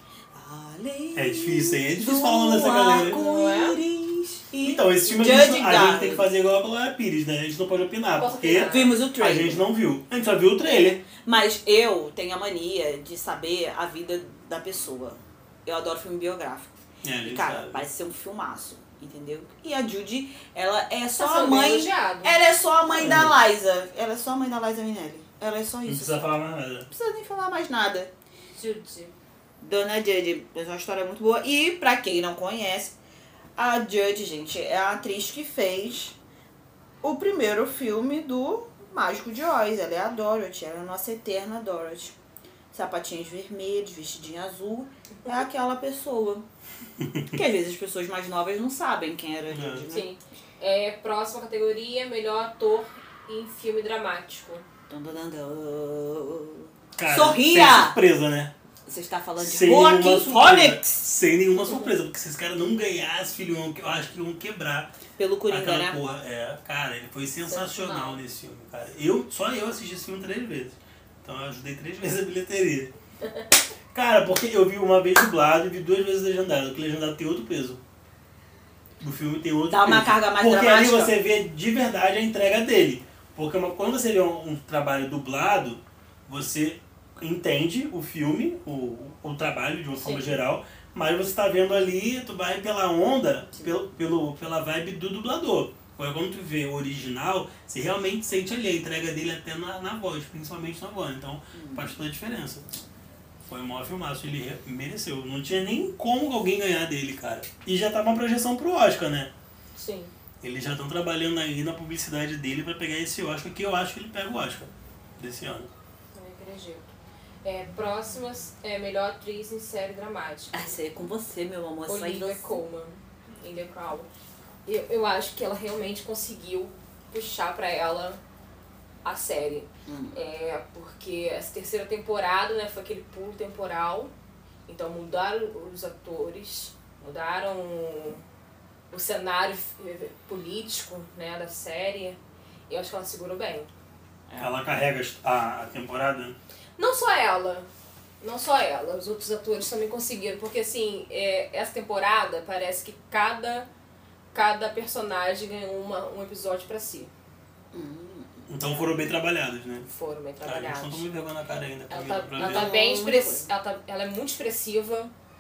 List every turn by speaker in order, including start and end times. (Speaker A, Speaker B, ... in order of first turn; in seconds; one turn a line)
Speaker A: 0.3-6.3
Speaker B: 1.1-3.2
Speaker C: 2.8-3.8
Speaker B: 4.6-11.0
Speaker C: 8.2-9.0
Speaker A: 8.6-9.6
Speaker A: 11.2-26.3
Speaker B: 17.0-17.8
Speaker C: 21.1-22.4
Speaker B: 22.9-23.4
Speaker B: 25.9-26.9
Speaker A: 26.9-28.1
Speaker C: 28.5-29.1
Speaker A: 29.6-32.9
Speaker A: 33.6-36.2
Speaker A: 37.0-42.1
Speaker A: 42.7-46.5
Speaker B: 47.0-47.3
Speaker A: 47.2-50.1
Speaker B: 49.5-49.9
Speaker C: 49.9-54.6
Speaker A: 54.9-58.0
Speaker B: 57.0-58.5
Speaker A: 58.9-61.0
Speaker B: 59.4-64.9
Speaker A: 65.2-66.0
Speaker B: 65.5-72.9
Speaker A: 67.5-68.2
Speaker C: 67.8-68.0
Speaker B: 73.9-77.8
Speaker B: 79.0-102.7
Speaker A: 79.7-81.1
Speaker C: 90.0-90.4
Speaker A: 101.5-101.9
Speaker B: 103.5-109.3
Speaker C: 109.8-110.1
Speaker B: 110.4-115.7
Speaker C: 116.1-116.9
Speaker C: 117.4-120.7
Speaker A: 120.5-122.5
Speaker C: 121.9-124.1
Speaker C: 124.7-128.2
Speaker C: 129.0-134.1
Speaker A: 129.9-130.2
Speaker C: 134.7-138.2
Speaker C: 138.9-142.2
Speaker C: 142.7-143.7
Speaker A: 144.3-144.6
Speaker B: 144.4-146.4
Speaker C: 146.8-147.7
Speaker C: 148.2-153.7
Speaker C: 154.3-157.1
Speaker A: 157.7-158.8
Speaker B: 158.5-159.9
Speaker C: 159.9-161.0
Speaker B: 160.4-162.7
Speaker C: 161.9-165.1
Speaker A: 162.4-163.5